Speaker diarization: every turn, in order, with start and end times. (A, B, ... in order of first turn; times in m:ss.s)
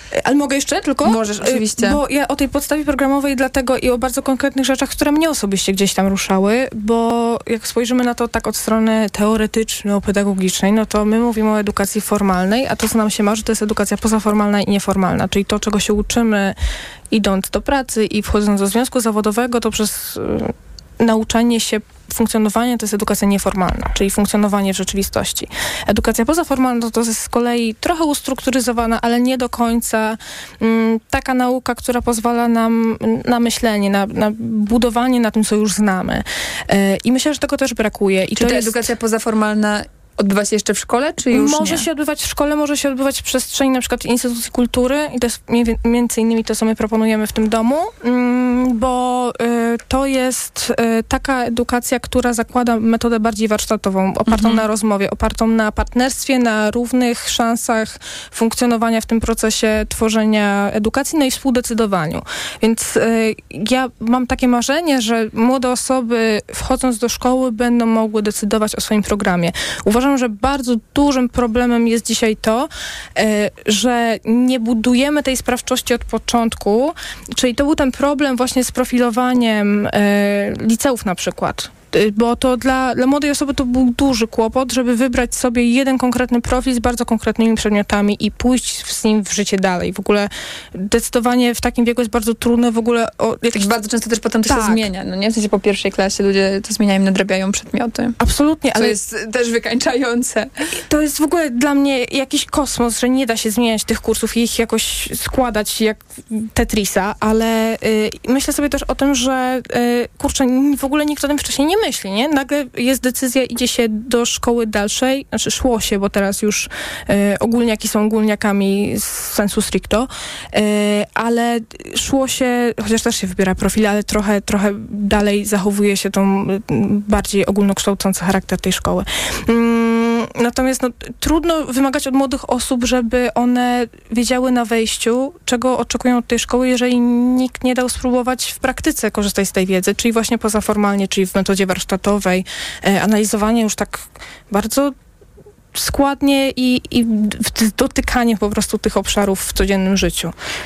0:00.1-0:16.6 A
0:01.0-0:02.0 B
0:17.1-0:38.9 A
0:38.4-0:41.8 B
0:41.3-1:33.7 A
0:54.3-0:54.6 B
1:33.5-1:38.2 B
1:34.5-1:34.9 A
1:38.2-1:39.0 A
1:38.8-1:40.5 B
1:40.9-2:25.0 A
2:25.7-2:30.4 A